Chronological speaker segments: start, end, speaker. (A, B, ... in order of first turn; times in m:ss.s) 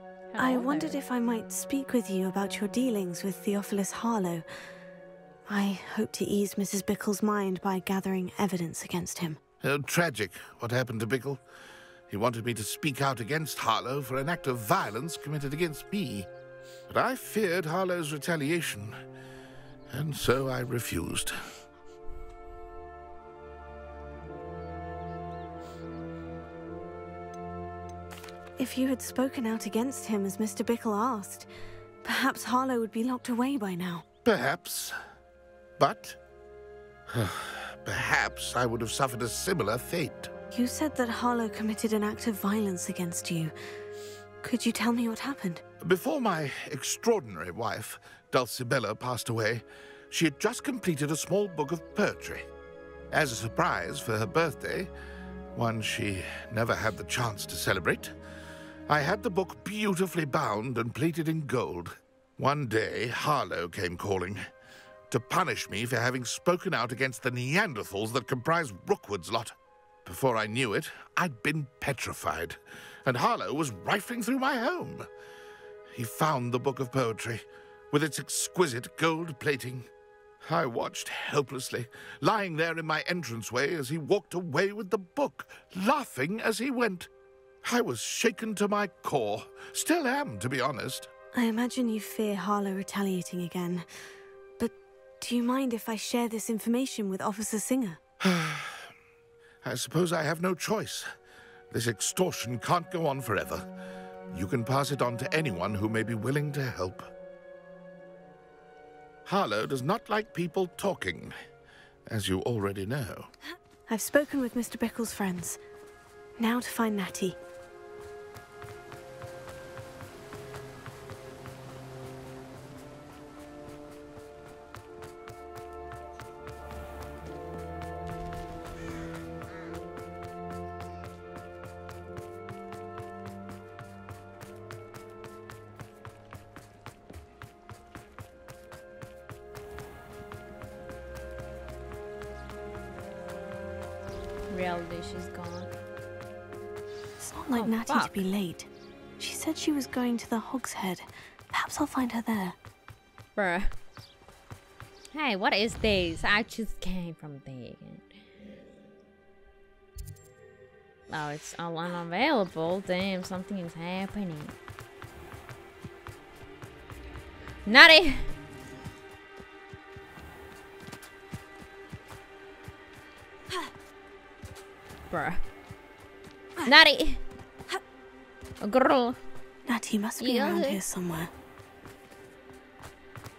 0:00.3-0:01.0 A
0:00.4-0:04.4 B
0:05.5-0:09.4 B
0:09.6-0:11.4 C
0:12.1-0:16.3 C
0:16.9-0:19.0 C
0:19.9-0:21.3 C
0:28.6-0:31.5 B
0:32.0-0:34.0 B
0:34.2-0:34.9 C
0:35.8-0:36.2 C
0:37.1-0:40.3 C
0:40.5-0:43.5 B
0:44.4-0:45.6 B
0:45.8-0:52.5 C
0:53.1-0:54.9 C
0:55.5-0:58.1 C
0:58.9-1:04.4 C
1:05.1-1:15.1 C
1:15.9-1:19.9 C
1:20.4-1:27.1 C
1:27.6-1:31.1 C
1:31.3-1:33.8 B
1:34.6-1:38.0 B
1:38.2-1:38.9 C
1:39.6-1:41.1 C
1:41.7-1:43.6 C
1:44.3-1:47.1 C
1:49.2-1:51.3 C
1:52.1-1:53.3 C
1:53.9-1:55.6 B
1:56.4-1:57.4 B
2:24.5-2:25.7 A
2:27.2-2:28.7 B
2:27.5-2:28.2 A
2:29.2-2:32.6 B
2:33.4-2:33.7 A
2:35.1-2:38.1 A
2:41.1-2:44.5 A
2:47.6-2:48.2 A
2:55.1-2:55.4 A
2:56.6-2:57.2 A
2:58.6-2:59.2 A
2:59.7-3:01.3 B
3:00.2-3:00.8 A